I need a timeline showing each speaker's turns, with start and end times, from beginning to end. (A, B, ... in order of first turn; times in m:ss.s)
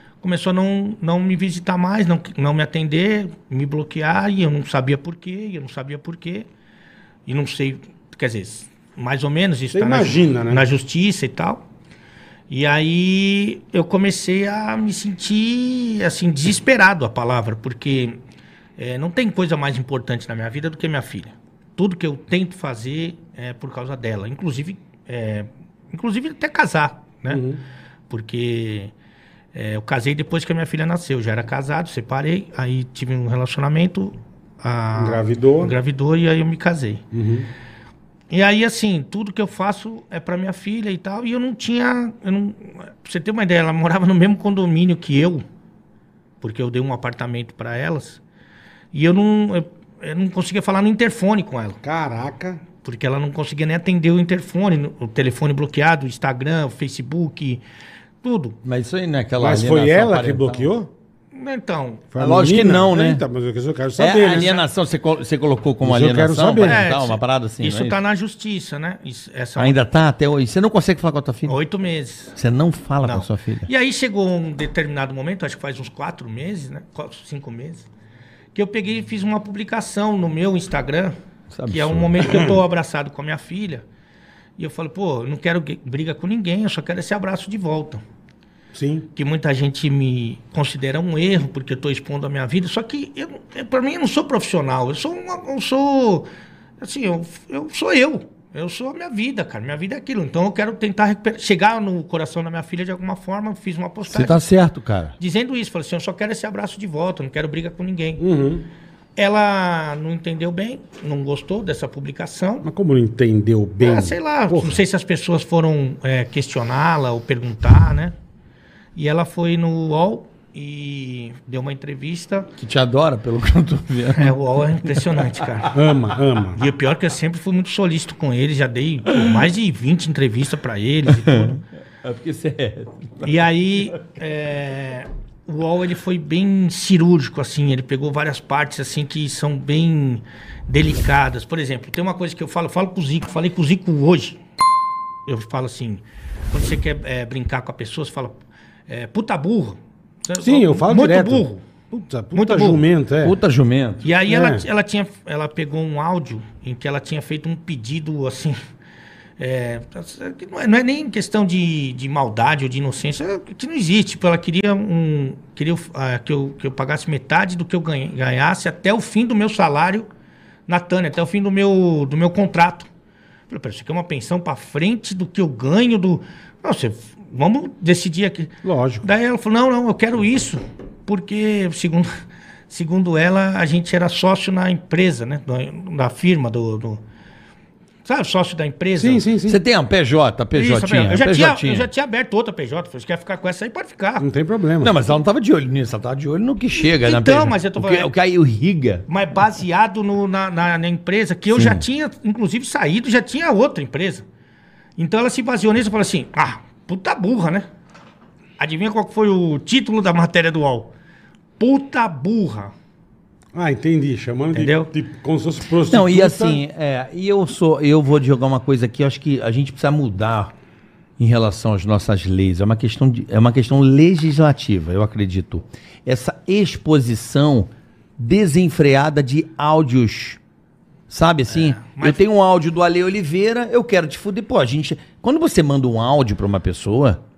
0:00.2-0:06.5 A
0:07.2-0:11.6 A
0:09.7-0:10.7 B
0:12.5-0:18.2 A
0:18.8-0:27.4 A
0:27.3-0:27.6 B
0:28.1-0:28.9 A
0:29.5-0:37.0 A
0:35.0-0:35.7 B
0:37.1-0:37.5 B
0:38.3-0:45.4 A
0:46.4-0:48.2 A
0:48.9-0:51.8 A
0:51.8-0:52.6 B
0:52.8-0:57.6 A
0:58.2-0:58.6 A
0:58.6-1:00.7 C
0:59.4-1:00.9 B
1:01.3-1:02.1 A
1:02.1-1:04.5 B
1:02.2-1:03.2 C
1:04.0-1:08.0 C
1:04.2-1:04.7 A
1:05.8-1:06.8 B
1:06.6-1:09.8 A
1:09.6-1:11.6 C
1:11.4-1:12.4 A
1:12.4-1:13.7 C
1:13.0-1:17.9 A
1:18.5-1:21.1 A
1:21.5-1:22.2 C
1:21.7-1:23.8 A
1:22.2-1:22.5 B
1:24.6-1:28.0 A
1:28.7-1:29.1 B
1:29.1-1:36.3 A
1:36.8-1:44.4 A
1:44.1-1:45.1 C
1:45.2-1:48.2 A
1:48.2-1:48.7 B
1:49.2-1:52.7 A
1:52.6-1:54.8 B
1:53.8-1:58.1 A
1:58.9-2:02.5 A
2:02.6-2:05.3 C
2:04.1-2:05.8 A
2:05.7-2:06.6 B
2:06.5-2:11.6 A
2:09.1-2:09.3 C
2:11.1-2:13.3 C
2:13.2-2:24.4 A
2:25.3-2:31.6 A
2:30.4-2:33.4 B
2:32.3-2:32.9 A
2:33.2-2:34.1 C
2:34.0-2:38.6 A
2:34.3-2:34.6 B
2:39.4-2:50.1 A
2:50.7-2:52.9 A
2:53.5-3:02.1 A
2:58.6-2:59.0 B
3:02.7-3:07.0 A
3:08.0-3:09.3 A
3:09.0-3:09.6 B
3:09.4-3:11.9 C
3:10.5-3:14.3 A
3:14.2-3:14.9 B
3:14.8-3:19.0 C
3:16.7-3:18.1 A
3:19.1-3:24.2 A
3:21.5-3:21.8 C
3:25.0-3:27.6 A
3:28.6-3:30.9 A
3:31.6-3:32.7 A
3:33.5-3:36.6 B
3:34.5-3:34.9 A
3:35.8-3:40.5 C
3:41.2-3:50.4 C
3:51.1-3:57.2 C
3:51.5-3:52.2 A